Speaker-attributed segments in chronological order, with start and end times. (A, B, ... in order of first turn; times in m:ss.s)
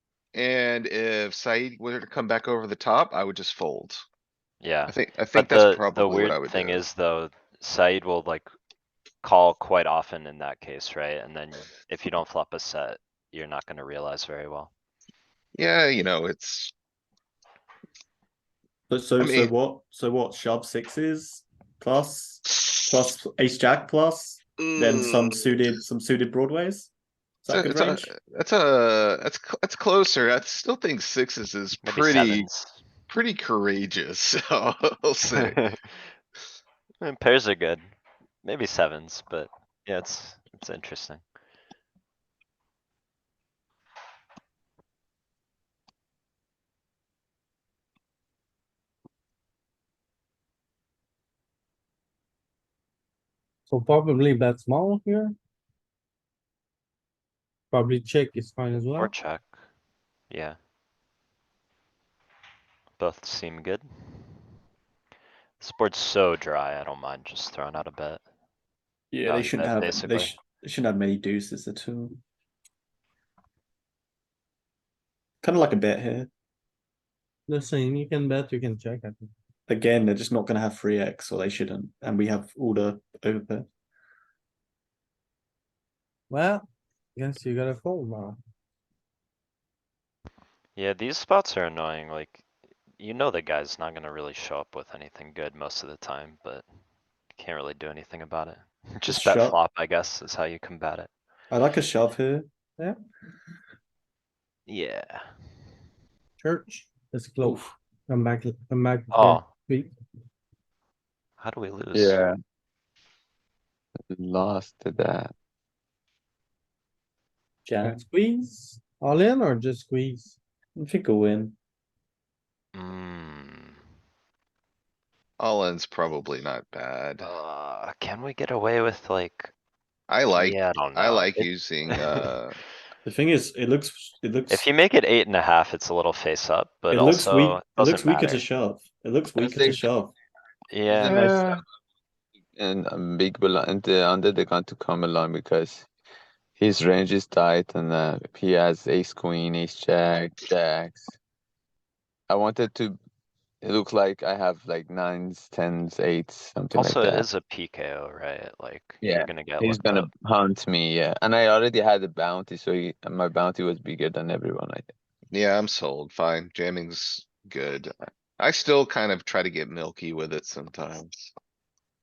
0:00.3-0:04.0 A
0:04.6-0:08.5 B
0:04.9-0:06.8 A
0:09.2-0:14.7 B
0:15.6-0:16.7 A
0:18.9-0:26.9 C
0:19.2-0:19.5 A
0:24.6-0:25.4 A
0:27.4-0:28.1 C
0:27.5-0:32.5 A
0:31.8-0:32.8 B
0:33.1-0:35.6 A
0:35.4-0:36.0 B
0:37.0-0:37.9 B
0:38.4-0:41.2 B
0:53.7-0:55.4 D
0:57.7-0:59.1 D
0:58.9-0:59.6 B
1:00.3-1:00.6 B
1:03.0-1:04.4 B
1:05.6-1:08.2 B
1:09.1-1:12.2 C
1:09.2-1:10.3 B
1:15.4-1:16.3 C
1:17.5-1:19.3 D
1:19.7-1:23.7 C
1:26.3-1:28.4 D
1:30.8-1:32.4 B
1:33.0-1:36.7 B
1:37.4-1:41.1 B
1:39.1-1:39.6 C
1:41.5-1:42.5 C
1:44.7-1:45.3 B
1:46.4-1:49.9 D
1:49.1-1:49.5 B
1:51.4-1:52.2 B
1:51.9-1:52.3 E
1:54.1-1:55.3 E
1:57.6-1:58.0 C
1:57.8-2:00.4 D
2:00.8-2:01.6 C
2:02.8-2:03.8 B
2:05.4-2:07.3 A
2:07.2-2:09.5 B
2:10.1-2:12.6 A
2:10.4-2:12.3 B
2:13.0-2:14.7 C
2:14.5-2:18.5 B
2:16.9-2:20.1 C
2:19.4-2:19.9 E
2:20.7-2:21.2 B
2:20.9-2:21.6 E
2:21.0-2:21.6 A
2:22.6-2:25.9 E
2:26.6-2:31.2 E
2:32.3-2:33.0 E
2:33.6-2:37.3 E
2:36.8-2:40.1 B
2:39.0-2:44.9 E
2:45.3-2:51.3 A